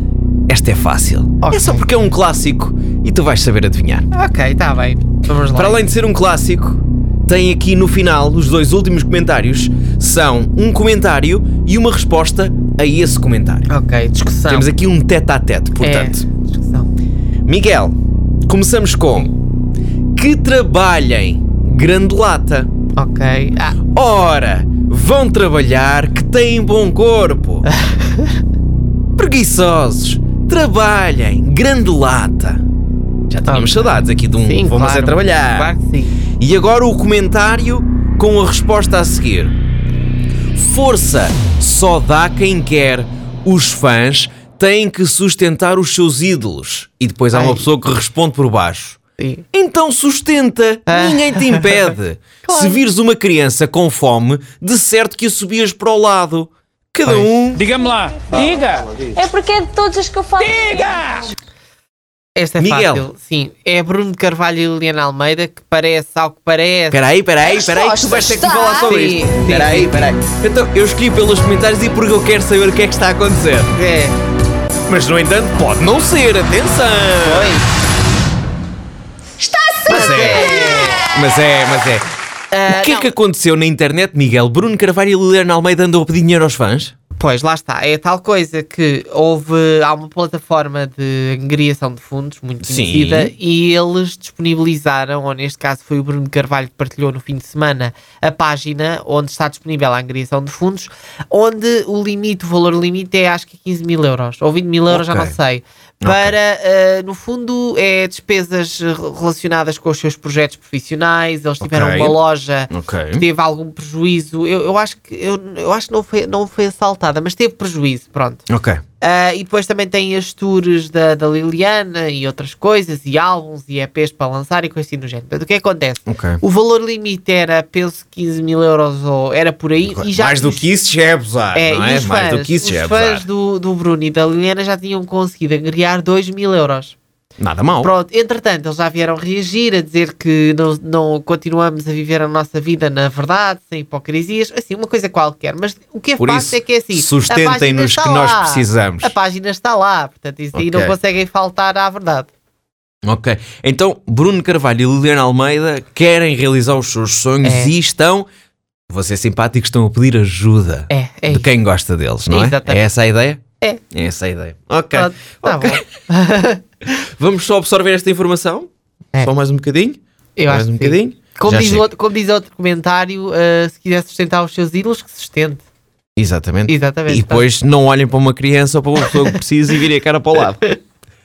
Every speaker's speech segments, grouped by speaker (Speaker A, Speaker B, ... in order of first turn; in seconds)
Speaker A: 0.5-4.1, 5.6-13.7, 14.5-16.2, 17.5-18.0, 18.5-19.3, 20.2-22.7, 23.9-27.7, 29.2-32.6, 33.3-35.7, 36.4-39.5, 40.5-49.0, 49.5-57.7, 62.6-63.0, 66.9-73.7, 74.9-77.5, 79.9-82.1, 82.7-86.9, 92.6-93.3, 104.9-105.3, 106.0-106.3, 111.6-112.2, 112.7-113.2, 118.5-118.8, 126.1-126.4, 129.9-133.2, 137.4-137.9, 146.2-149.1, 150.6-150.9, 153.1-158.3, 158.9-163.4, 163.9-165.8, 166.9-171.9, 176.2-180.8
Speaker B: 1.4-1.9, 4.1-5.8, 13.7-14.7, 15.8-16.9, 23.0-23.8, 27.8-28.3, 33.4-36.2, 47.3-47.7, 49.2-49.5, 50.9-51.9, 52.5-52.8, 57.0-57.3, 62.4-67.0, 68.7-69.9, 73.7-74.2, 77.2-77.7, 79.9-81.1, 82.5-83.1, 87.2-118.4, 119.0-130.7, 131.5-137.0, 137.8-152.3, 157.4-157.7, 160.9-161.5, 162.3-162.8, 164.9-166.6, 170.4-175.6, 176.7-177.5, 179.1-179.3
Speaker C: 57.6-59.1, 60.8-61.3
Speaker D: 59.0-61.1, 67.4-69.0, 79.4-81.0